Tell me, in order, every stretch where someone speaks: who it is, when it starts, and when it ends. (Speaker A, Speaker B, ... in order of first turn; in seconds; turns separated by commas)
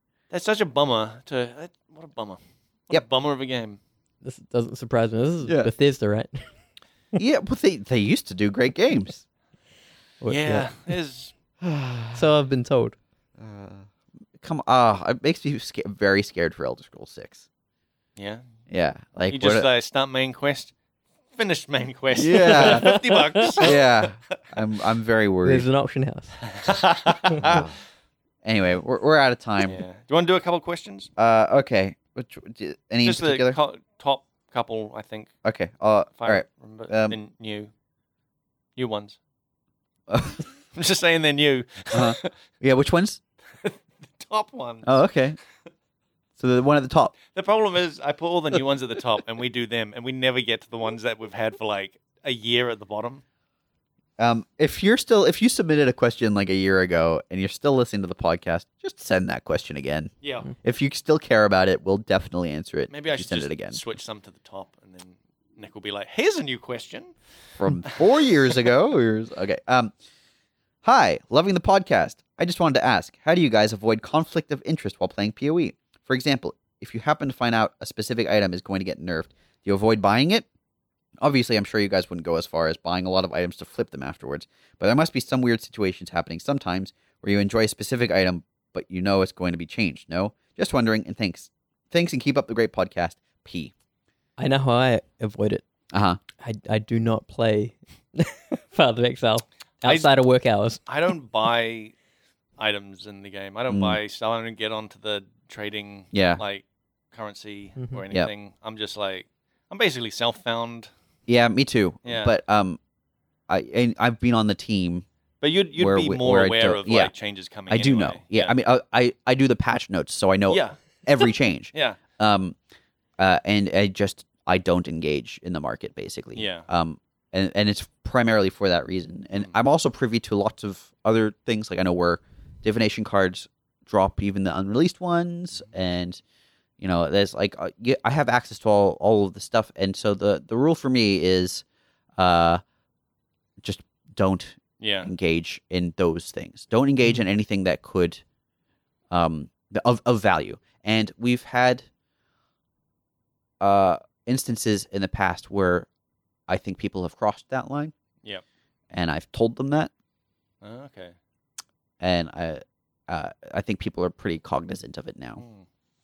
Speaker A: 0.3-3.8, Speaker B: 4.2-6.5, Speaker C: 5.4-5.7, Speaker C: 7.1-9.2, Speaker B: 10.2-10.7, Speaker A: 10.3-11.3, Speaker C: 11.6-12.2, Speaker B: 12.1-12.9, Speaker C: 13.4-17.4, Speaker A: 18.1-18.4, Speaker C: 18.7-19.7, Speaker A: 19.3-20.7, Speaker A: 21.3-24.0, Speaker C: 22.1-23.0, Speaker B: 22.2-23.4, Speaker C: 23.6-25.6, Speaker B: 25.4-26.4, Speaker A: 26.5-27.7, Speaker C: 27.4-27.7, Speaker C: 28.4-29.8, Speaker A: 29.6-31.1, Speaker C: 31.2-33.6, Speaker A: 33.0-35.3, Speaker C: 35.4-37.1, Speaker A: 36.2-37.7, Speaker A: 38.8-39.2, Speaker C: 40.1-40.4, Speaker A: 40.7-42.3, Speaker C: 41.9-43.2, Speaker A: 43.6-45.0, Speaker C: 44.8-45.4, Speaker C: 46.4-47.1, Speaker A: 47.3-53.2, Speaker C: 54.2-63.8, Speaker A: 60.2-60.5, Speaker A: 62.9-67.1, Speaker C: 67.6-69.9, Speaker A: 67.9-68.5, Speaker C: 70.8-80.5, Speaker C: 81.2-93.7, Speaker B: 94.4-95.6, Speaker C: 95.9-96.2, Speaker B: 96.4-100.8, Speaker A: 99.8-100.1, Speaker A: 100.9-101.9, Speaker A: 102.6-110.9, Speaker C: 103.7-104.0, Speaker C: 106.1-106.4, Speaker C: 111.3-112.8, Speaker A: 112.0-112.3, Speaker C: 113.5-115.0, Speaker A: 115.4-118.6, Speaker C: 115.8-117.1, Speaker C: 117.7-122.6, Speaker A: 120.5-122.0, Speaker C: 123.2-136.2, Speaker A: 126.3-126.7, Speaker C: 136.8-141.6, Speaker C: 142.2-142.6, Speaker C: 143.6-148.2, Speaker A: 144.8-145.1, Speaker C: 149.1-151.9, Speaker C: 153.6-155.9, Speaker C: 156.5-157.9, Speaker C: 158.9-159.9, Speaker A: 160.6-161.1, Speaker C: 162.0-165.4, Speaker A: 165.4-165.6